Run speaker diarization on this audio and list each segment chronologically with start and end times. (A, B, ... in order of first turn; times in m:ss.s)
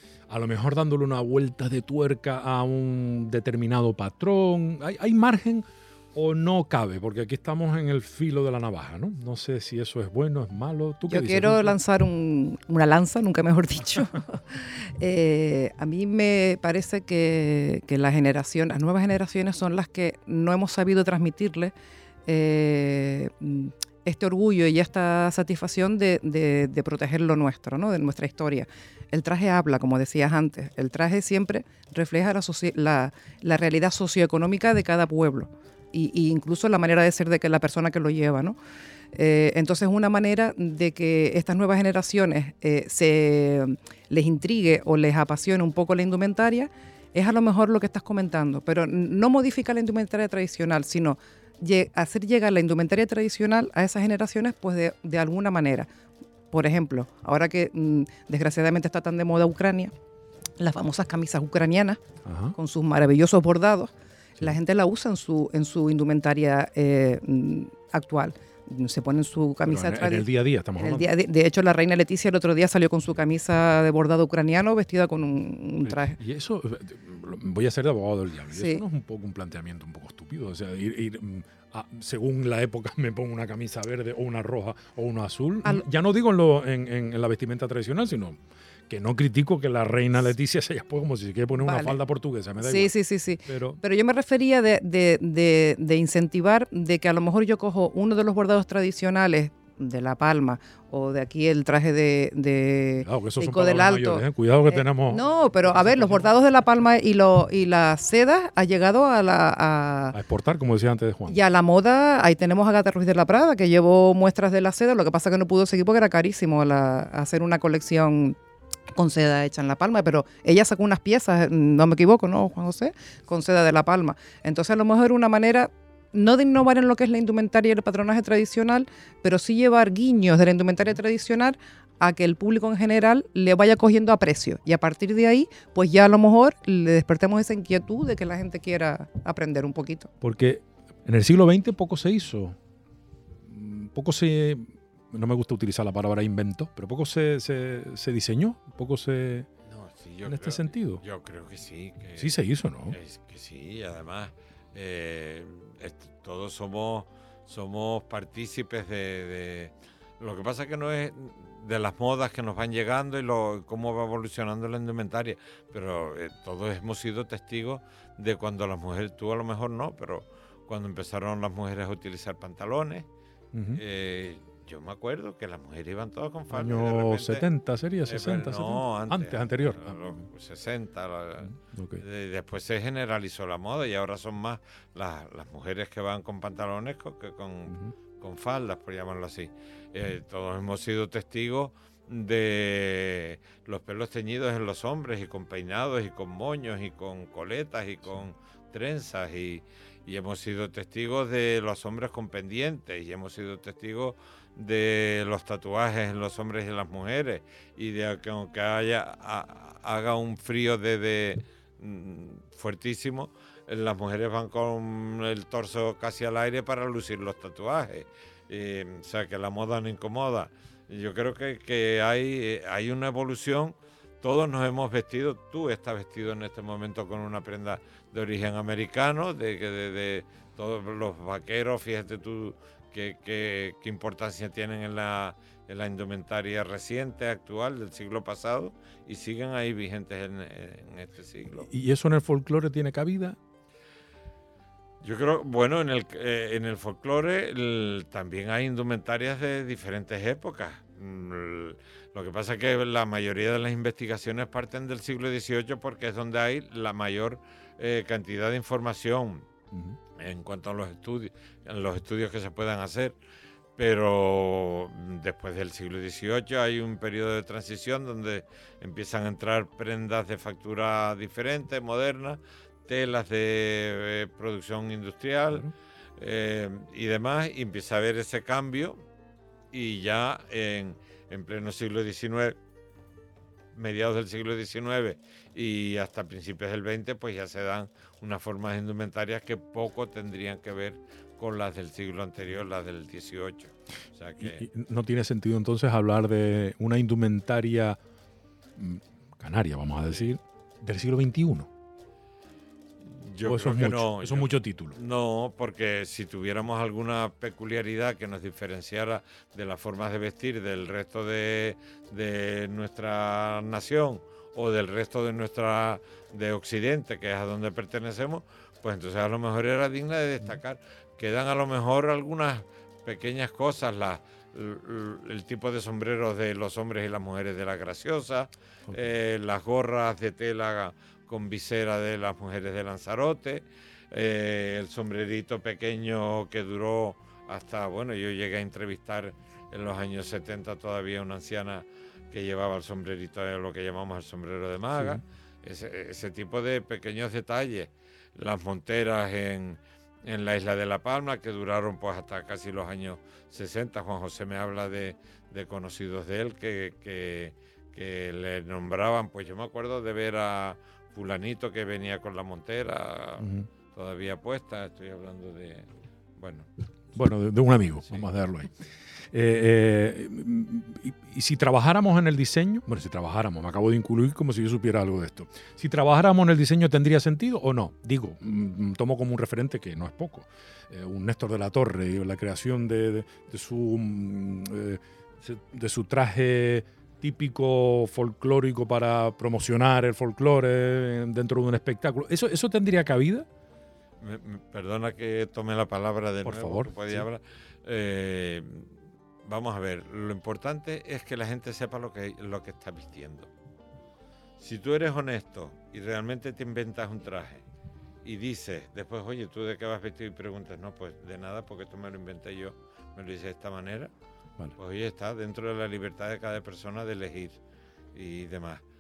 0:00.3-0:11.8 A
0:11.1-0:21.7 B
0:22.3-0:38.6 B
0:39.1-0:55.9 B
0:56.5-0:59.9 B
1:00.6-1:02.0 B
1:02.2-1:02.6 A
1:02.6-1:16.2 B
1:09.6-1:11.1 A
1:15.8-1:28.4 A
1:18.5-1:18.8 B
1:28.9-1:32.9 A
1:31.6-1:32.0 B
1:32.6-1:50.2 B
1:33.4-1:33.8 A
1:43.0-1:46.3 A
1:50.1-1:51.4 A
1:51.3-1:58.4 B
1:58.9-2:20.1 B
2:20.2-2:22.6 A
2:23.4-2:29.5 A
2:29.7-2:32.4 C
2:30.2-2:31.0 A
2:32.2-2:33.0 A
2:32.9-2:53.1 C
2:53.5-2:53.8 A
2:53.8-2:57.4 C
2:56.5-3:00.2 A
2:58.1-4:01.7 C
3:01.4-3:02.0 A
3:07.7-3:07.9 A
4:01.5-4:03.4 A
4:05.0-4:19.4 C
4:19.7-4:20.0 A
4:20.2-4:23.2 C
4:23.8-4:35.7 C
4:36.2-4:39.0 C
4:39.7-4:42.6 C
4:43.8-4:54.6 C
4:54.4-4:58.0 A
4:58.8-5:01.7 A
5:03.0-6:06.7 C
5:03.4-5:05.0 A
5:45.0-5:45.2 A
6:03.4-6:03.7 A
6:07.1-6:08.7 A
6:09.3-6:33.5 A
6:34.2-6:38.9 C
6:36.4-6:37.3 A
6:39.4-6:43.5 C
6:44.6-6:47.6 C
6:48.2-6:54.1 C
6:54.8-6:57.6 C
6:58.1-6:58.8 C